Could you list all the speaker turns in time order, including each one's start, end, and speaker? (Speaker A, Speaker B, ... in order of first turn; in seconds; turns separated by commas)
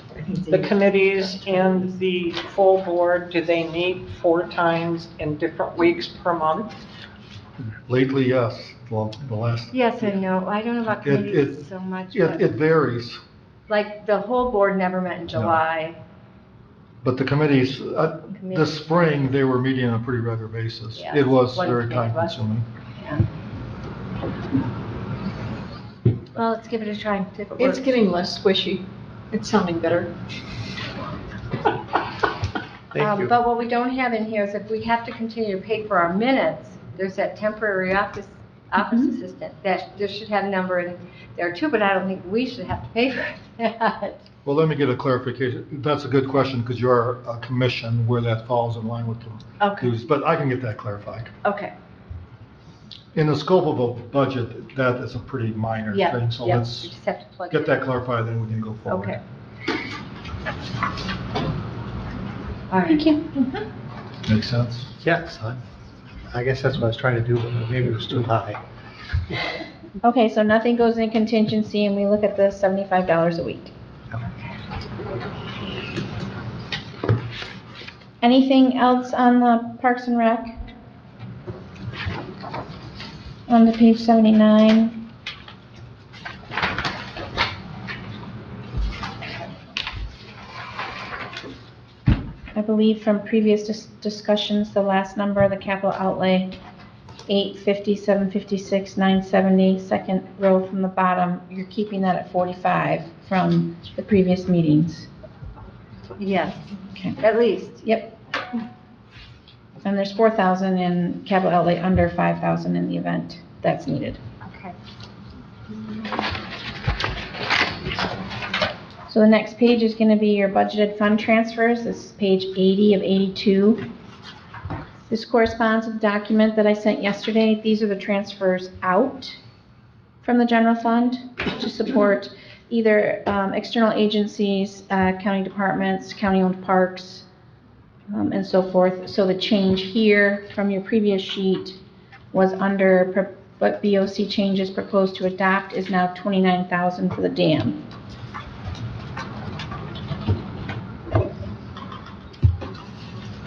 Speaker A: 0.2-0.6, Speaker B: 0.5-6.7, Speaker C: 7.8-10.1, Speaker D: 9.7-12.6, Speaker C: 10.9-13.2, Speaker D: 13.7-16.0, Speaker C: 15.3-15.6, Speaker C: 17.0-22.7, Speaker D: 18.3-19.3, Speaker D: 21.0-22.4, Speaker D: 23.0-23.2, Speaker D: 26.3-28.0, Speaker A: 27.5-30.1, Speaker E: 32.9-33.3, Speaker D: 33.0-44.2, Speaker F: 38.8-39.1, Speaker C: 44.4-51.3, Speaker D: 49.6-49.9, Speaker D: 51.4-51.7, Speaker C: 53.1-56.9, Speaker D: 55.9-57.8, Speaker C: 57.5-59.2, Speaker D: 58.9-59.2, Speaker D: 62.7-63.0, Speaker F: 62.9-63.5, Speaker C: 64.3-64.9, Speaker E: 65.0-65.6, Speaker E: 66.3-68.6, Speaker F: 70.0-73.7, Speaker F: 78.2-80.6, Speaker F: 83.5-85.0, Speaker F: 92.5-96.5, Speaker F: 97.3-105.1, Speaker D: 106.2-106.6, Speaker D: 107.2-107.9, Speaker F: 107.8-108.1, Speaker F: 109.8-114.2, Speaker D: 114.5-114.7, Speaker F: 119.1-123.8, Speaker F: 125.1-129.4, Speaker F: 130.2-137.2, Speaker F: 138.1-141.8, Speaker F: 142.3-147.8